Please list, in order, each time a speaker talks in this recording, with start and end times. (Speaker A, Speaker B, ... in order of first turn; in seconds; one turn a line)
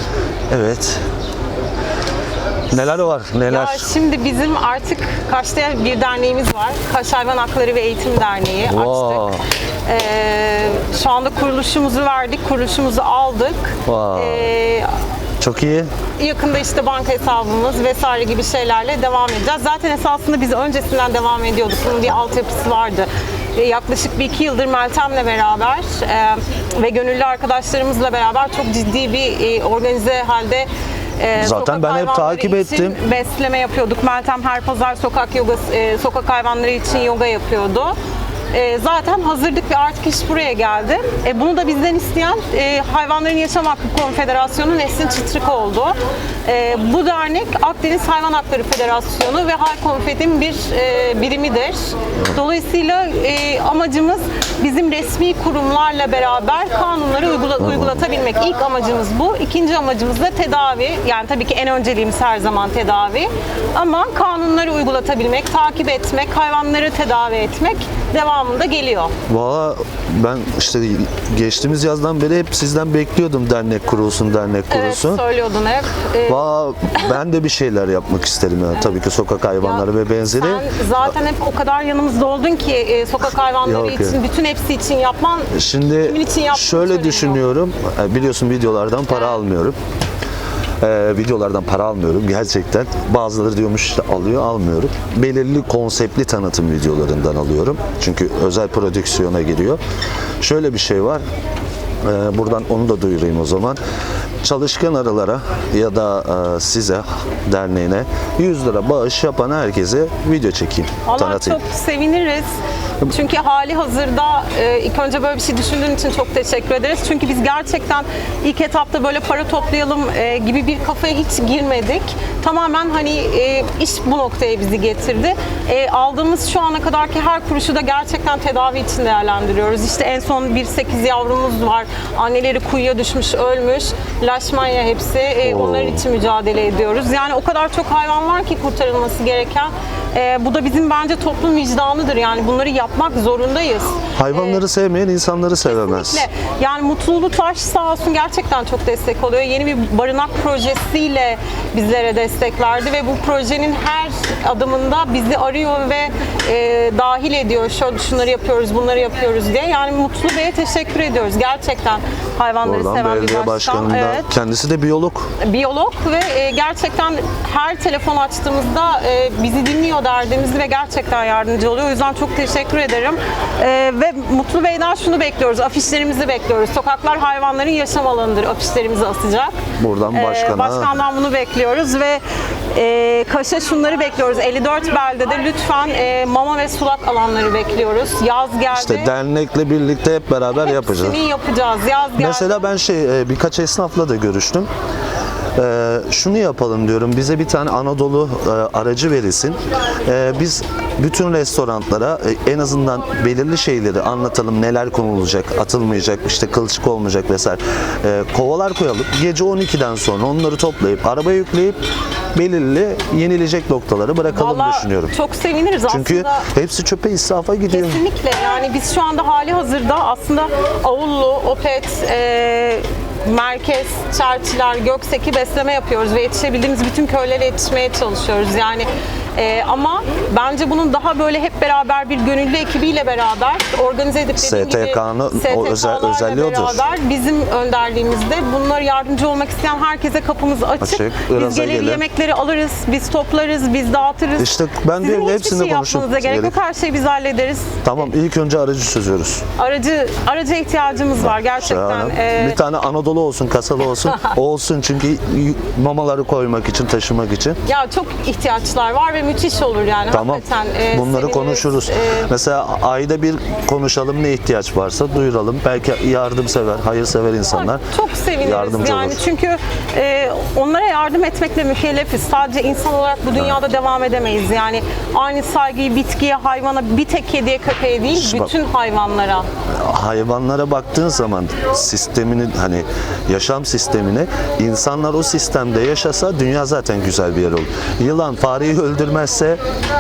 Speaker A: 0.5-1.0
Speaker A: 2.7-3.9
Speaker B: 3.5-9.3
Speaker A: 8.7-9.4
Speaker B: 9.9-14.9
Speaker A: 13.9-14.5
Speaker A: 15.4-15.9
Speaker B: 16.2-38.0
Speaker A: 31.4-33.0
Speaker B: 38.5-69.1
Speaker A: 57.6-57.9
Speaker A: 69.3-75.2
Speaker B: 74.7-76.4
Speaker A: 76.3-80.7
Speaker B: 79.6-85.5
Speaker A: 83.6-84.2
Speaker A: 85.5-89.8
Speaker B: 86.0-87.4
Speaker B: 89.1-89.4
Speaker A: 90.8-99.8
Speaker A: 100.4-101.2
Speaker A: 102.0-103.8
Speaker A: 104.4-111.6
Speaker B: 111.1-112.5
Speaker B: 113.0-144.6
Speaker A: 135.4-136.0
Speaker A: 144.2-146.3
Speaker B: 145.6-164.3
Speaker A: 162.6-165.3
Speaker B: 165.4-179.6
Speaker A: 179.8-180.9
Speaker B: 180.1-182.2
Speaker B: 182.7-189.1
Speaker A: 188.7-191.2
Speaker B: 190.5-192.7
Speaker A: 192.2-194.7
Speaker A: 195.6-211.8
Speaker A: 212.3-215.1
Speaker B: 214.3-216.5
Speaker A: 215.9-218.0
Speaker B: 217.7-247.8
Speaker A: 234.4-236.8
Speaker A: 240.8-242.0
Speaker A: 244.4-246.6
Speaker A: 247.8-249.4
Speaker B: 249.6-252.6
Speaker A: 251.2-257.6
Speaker B: 257.7-262.3
Speaker A: 260.1-267.8
Speaker B: 267.5-279.5
Speaker A: 268.4-269.2
Speaker A: 273.3-273.6
Speaker A: 278.1-278.5
Speaker A: 279.7-289.6